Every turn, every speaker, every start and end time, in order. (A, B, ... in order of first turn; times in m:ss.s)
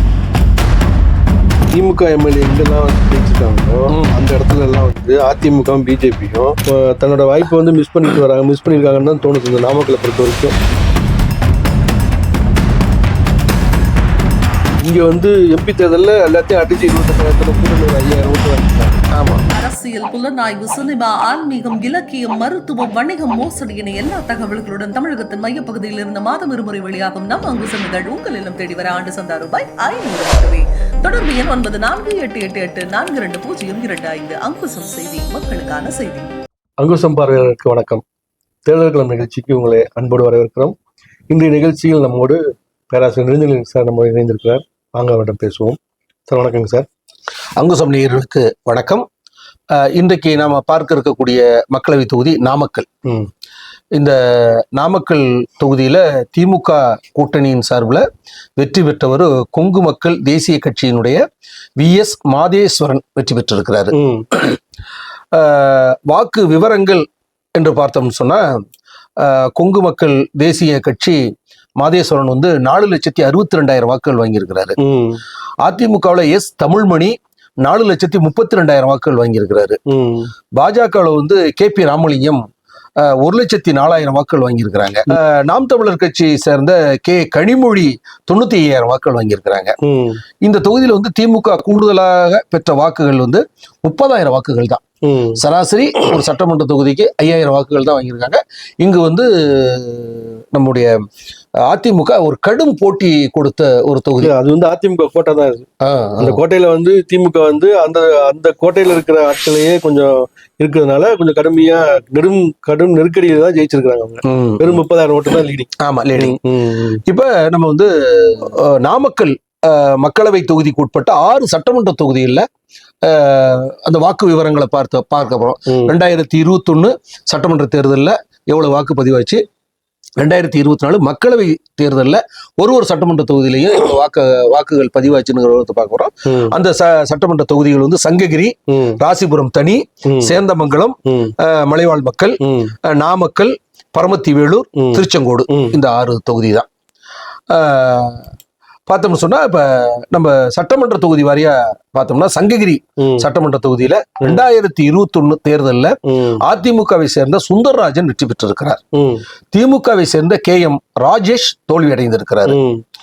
0:01.7-0:10.6 A
0:14.8-0:19.0 A
0:19.1-0:19.4 B
0:19.5-0:36.3 C
0:36.8-0:38.0 A
0:38.7-0:40.8 A
0:41.3-0:42.4 A
0:42.9-0:46.9 A
0:47.6-0:49.1 B
0:49.8-0:52.9 B
0:54.0-0:58.1 B
0:58.6-1:01.2 B
1:01.8-1:04.6 B
1:03.9-1:04.3 A
1:05.3-1:07.0 B
1:07.6-1:08.4 B
1:09.2-1:11.2 B
1:11.8-1:14.8 B
1:14.8-1:15.2 A
1:15.6-1:19.8 B
1:19.9-1:20.3 A
1:20.6-1:22.4 B
1:23.0-1:29.8 B
1:29.8-1:30.2 A
1:30.4-1:34.8 B
1:35.0-1:35.4 A
1:35.4-1:41.0 B
1:41.7-1:44.3 B
1:44.2-1:45.7 A
1:45.8-1:46.4 B
1:46.2-1:57.0 A
1:54.2-1:54.8 B
1:55.8-1:56.4 B
1:57.1-2:02.5 B
2:03.0-2:09.4 B
2:10.2-2:26.7 B
2:16.3-2:16.6 A
2:18.7-2:19.0 A
2:20.1-2:20.4 A
2:21.1-2:21.3 A
2:22.4-2:22.7 A
2:24.8-2:25.8 A
2:27.5-2:28.3 B
2:28.9-2:38.8 B
2:33.0-2:33.3 A
2:36.1-2:36.4 A
2:38.9-2:39.2 A
2:39.5-2:42.6 B
2:42.5-2:42.8 A